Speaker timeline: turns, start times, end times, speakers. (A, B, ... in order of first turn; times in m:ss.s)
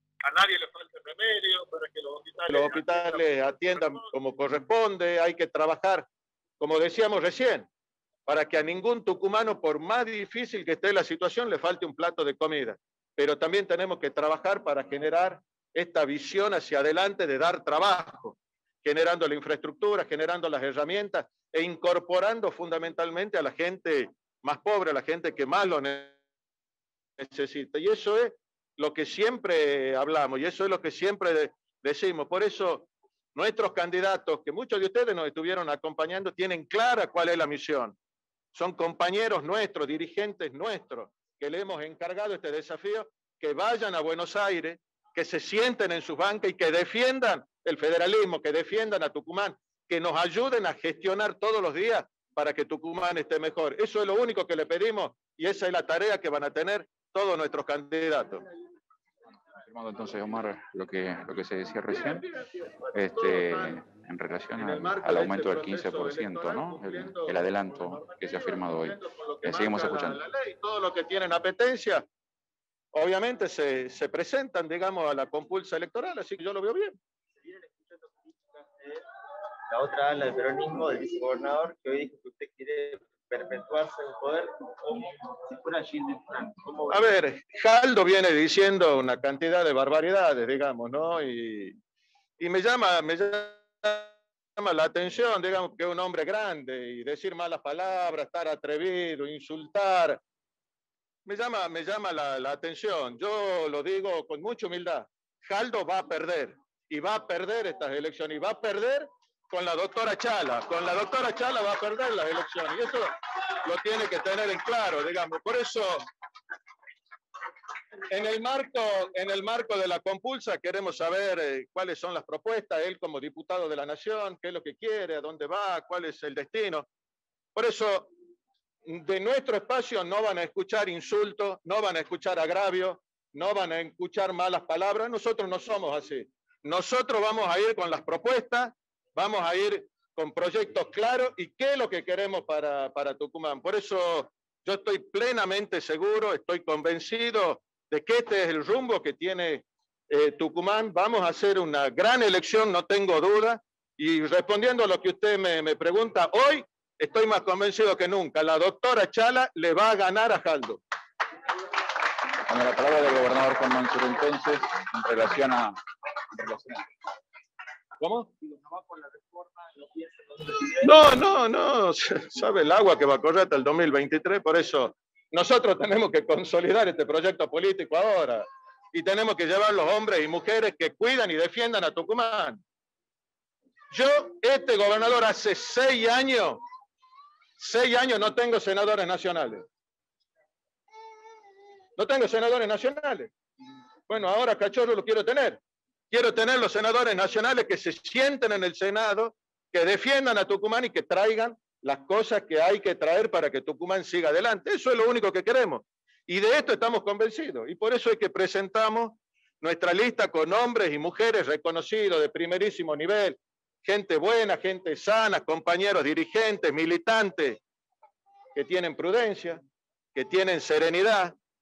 0:00.2-0:03.2 A
0:02.5-0:06.1 B
0:06.6-0:07.7 B
0:08.2-0:26.2 B
0:27.2-0:38.0 B
0:38.5-0:58.4 B
0:59.6-1:02.2 C
1:01.9-1:03.8 B
1:02.9-1:10.2 C
1:04.6-1:12.0 B
1:12.9-1:17.0 B
1:17.4-1:19.0 D
1:19.7-1:27.1 D
1:26.9-1:31.8 B
1:32.4-1:40.2 B
1:41.2-1:53.1 B
1:53.6-1:56.0 B
1:58.1-2:06.9 B
2:07.5-2:08.1 B
2:08.8-2:40.8 B
2:42.5-2:45.7 C
2:46.3-2:46.9 C
2:48.0-2:48.3 B
2:48.5-2:50.9 D
2:50.8-3:02.6 B
3:03.9-3:06.6 B
3:07.6-3:09.6 B
3:12.0-3:13.3 B
3:14.1-3:37.6 B
3:38.5-3:39.6 B
3:40.1-3:41.4 B